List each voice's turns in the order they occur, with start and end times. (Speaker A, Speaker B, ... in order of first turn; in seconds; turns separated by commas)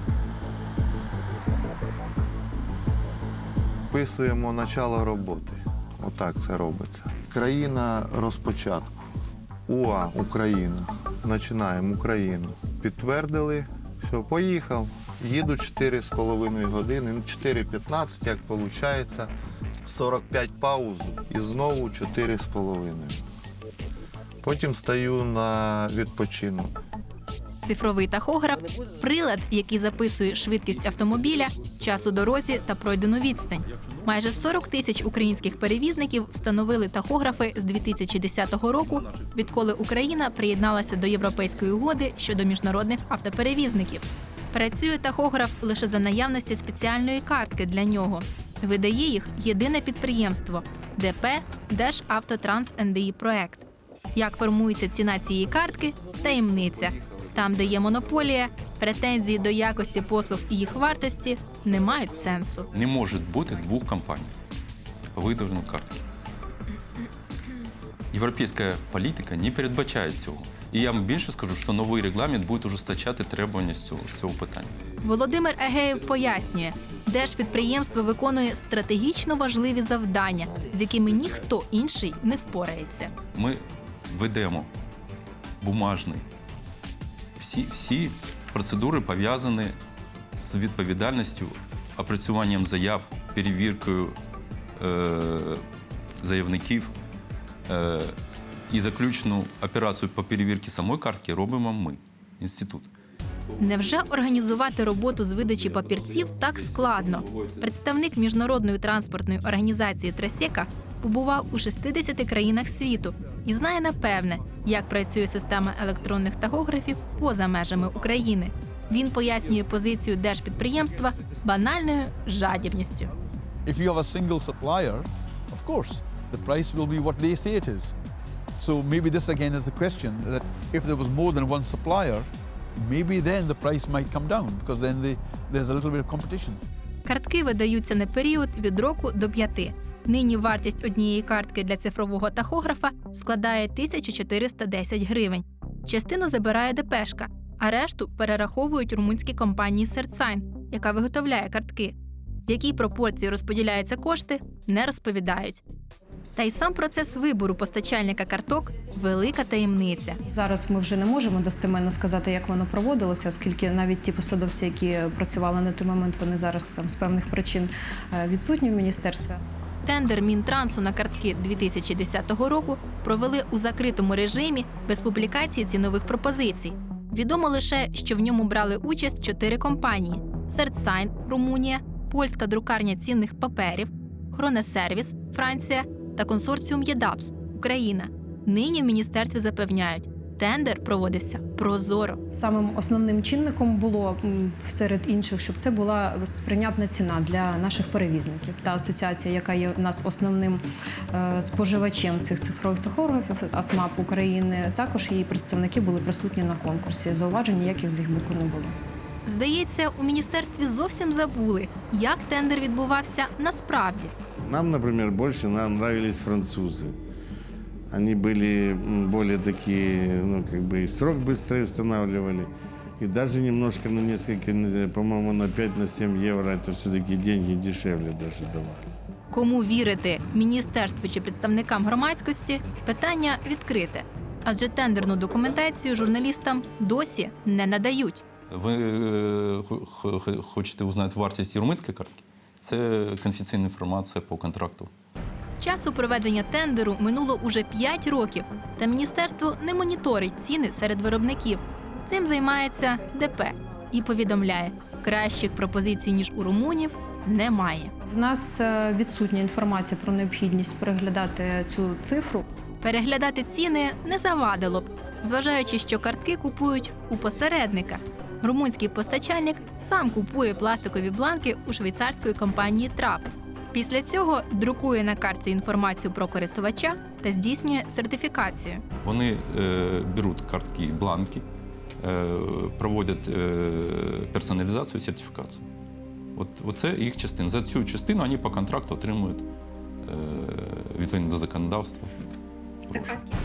Speaker A: 3.9-8.9, Speaker A: 9.7-19.3, Speaker A: 19.9-23.2, Speaker A: 24.4-26.7, Speaker B: 27.6-62.7, Speaker C: 33.6-35.0, Speaker C: 38.7-39.8, Speaker A: 56.2-58.3, Speaker C: 62.7-64.3, Speaker C: 65.1-66.0, Speaker C: 68.1-78.0, Speaker B: 75.0-83.1, Speaker C: 80.6-81.3, Speaker C: 83.3-84.7, Speaker C: 85.6-86.2, Speaker C: 87.4-89.8, Speaker C: 90.4-94.2, Speaker C: 94.8-95.6, Speaker C: 96.2-96.9, Speaker C: 97.7-98.2, Speaker C: 98.7-102.9, Speaker C: 103.5-104.3, Speaker B: 103.6-123.1, Speaker C: 105.3-107.7, Speaker D: 123.6-127.9, Speaker D: 128.6-136.6, Speaker B: 137.0-151.9, Speaker B: 152.4-155.6, Speaker B: 156.3-160.2, Speaker E: 160.2-169.4, Speaker B: 169.8-192.2, Speaker E: 192.3-208.8, Speaker B: 209.2-214.1, Speaker F: 214.4-217.0, Speaker F: 217.9-228.9, Speaker B: 229.3-238.2, Speaker C: 238.5-244.9, Speaker B: 245.6-257.9, Speaker E: 258.0-262.4, Speaker B: 262.8-278.8, Speaker C: 279.0-281.4, Speaker C: 282.0-285.6, Speaker C: 286.3-289.5, Speaker C: 290.0-292.1, Speaker C: 292.9-293.2